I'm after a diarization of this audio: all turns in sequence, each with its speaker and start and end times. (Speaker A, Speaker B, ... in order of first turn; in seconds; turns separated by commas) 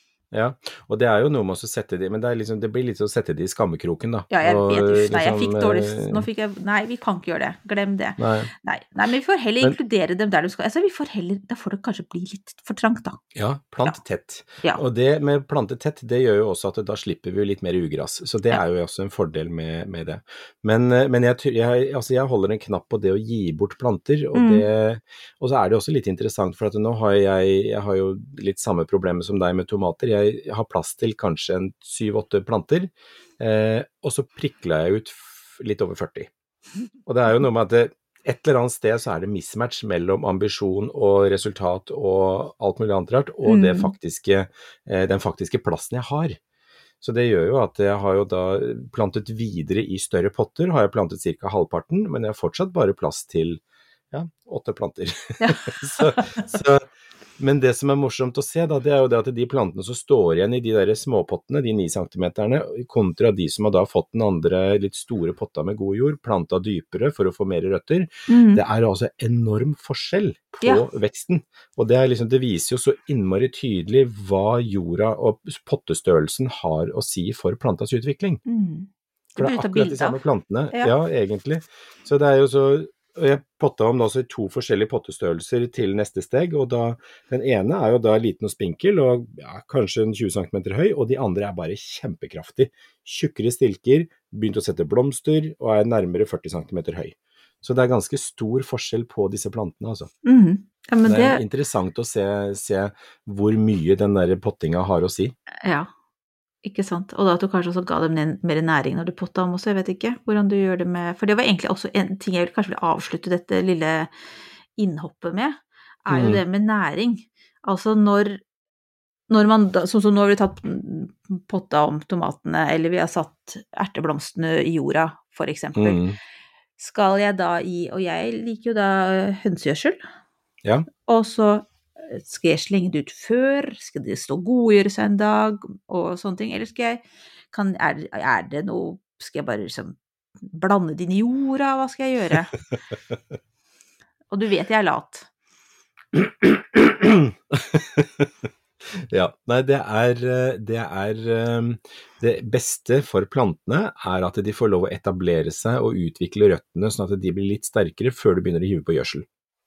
Speaker A: 0.3-6.3, Speaker B: 4.3-13.2, Speaker A: 8.2-8.5, Speaker A: 13.3-36.3, Speaker B: 24.3-24.7, Speaker A: 37.1-46.4, Speaker B: 43.5-43.9, Speaker A: 47.0-56.9, Speaker B: 55.4-56.4, Speaker A: 57.4-78.4, Speaker B: 68.3-68.6, Speaker B: 78.5-80.9, Speaker A: 79.4-100.1, Speaker B: 100.2-101.4, Speaker A: 101.0-105.3, Speaker B: 105.6-105.9, Speaker B: 106.6-114.1, Speaker B: 114.8-118.4, Speaker A: 116.1-116.4, Speaker B: 119.3-126.0, Speaker A: 125.8-126.2, Speaker B: 126.8-130.0, Speaker B: 131.1-142.5, Speaker B: 144.3-145.3, Speaker A: 146.2-148.3, Speaker A: 149.1-159.2